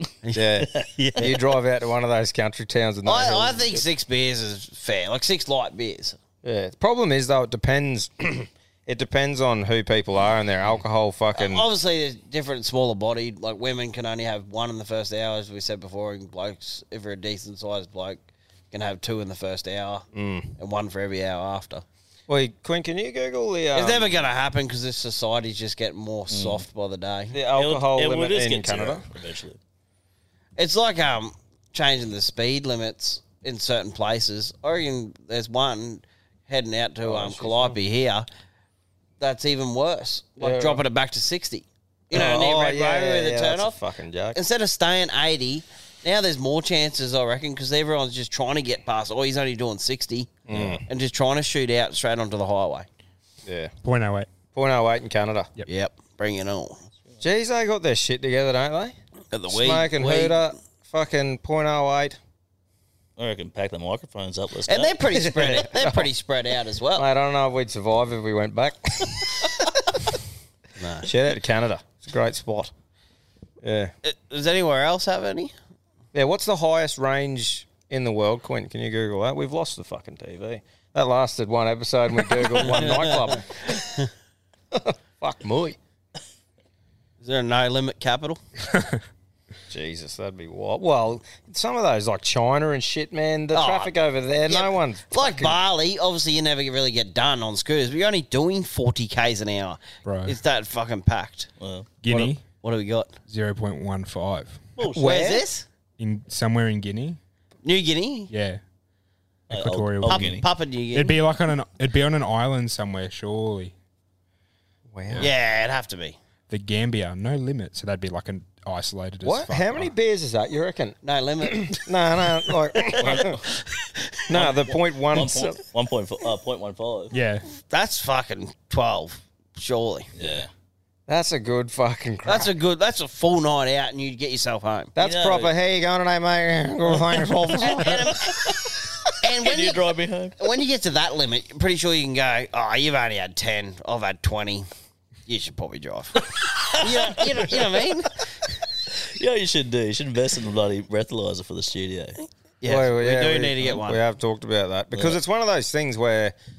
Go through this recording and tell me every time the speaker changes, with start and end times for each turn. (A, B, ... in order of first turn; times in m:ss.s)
0:00.3-0:03.8 A
0:00.6-0:01.3 B
0:01.0-0:01.4 C
0:03.0-0:06.2 C
0:06.4-0:11.6 A
0:11.4-0:20.0 C
0:20.1-0:20.5 A
0:20.6-0:21.8 C
0:22.3-0:24.2 A
0:23.7-0:27.4 C
0:26.3-0:26.6 B
0:27.3-0:29.0 A
0:27.5-0:29.6 B
0:30.6-0:38.2 C
0:37.0-0:37.7 A
0:39.2-0:43.8 C
0:40.4-0:40.8 A
0:42.1-0:44.4 A
0:44.3-0:52.9 C
0:50.5-0:50.8 A
0:53.4-0:53.7 A
0:53.8-0:54.3 D
0:54.5-0:55.5 A
0:55.6-0:56.8 C
0:57.2-0:59.0 A
0:59.3-1:00.5 C
0:59.5-1:02.2 A
1:03.2-1:05.0 B
1:04.7-1:07.0 C
1:05.4-1:06.1 A
1:07.0-1:09.5 A
1:10.8-1:11.1 C
1:11.0-1:12.7 A
1:13.6-1:13.9 A
1:14.0-1:15.5 C
1:16.1-1:23.8 A
1:22.6-1:23.2 C
1:24.7-1:25.8 A
1:27.2-1:28.4 C
1:29.7-1:35.6 A
1:33.5-1:33.9 C
1:34.5-1:41.5 C
1:40.0-1:40.4 D
1:41.6-1:41.9 B
1:42.0-1:42.4 D
1:42.1-1:43.1 C
1:43.3-1:44.7 D
1:44.8-1:45.1 B
1:44.8-1:45.4 A
1:45.0-1:45.6 C
1:46.0-1:47.2 D
1:47.6-1:48.3 C
1:48.3-1:48.6 D
1:49.5-1:50.4 B
1:49.5-1:50.3 D
1:50.0-1:51.2 C
1:50.9-1:53.7 D
1:54.9-1:55.3 A
1:55.2-1:56.2 C
1:56.5-1:59.9 D
1:59.2-2:03.3 A
2:01.0-2:01.8 C
2:02.9-2:03.2 C
2:03.0-2:03.4 B
2:04.3-2:05.6 A
2:04.3-2:07.1 B
2:07.1-2:07.5 D
2:07.5-2:10.1 C
2:10.2-2:10.5 B
2:11.1-2:12.5 A
2:12.2-2:14.9 C
2:15.0-2:18.2 A
2:15.0-2:15.5 B
2:17.8-2:18.1 C
2:19.2-2:19.8 C
2:19.4-2:20.3 B
2:20.4-2:24.7 C
2:25.2-2:26.3 C
2:26.8-2:28.1 C
2:26.8-2:27.8 B
2:29.2-2:32.2 B
2:32.6-2:34.0 C
2:32.6-2:36.3 A
2:34.9-2:35.2 B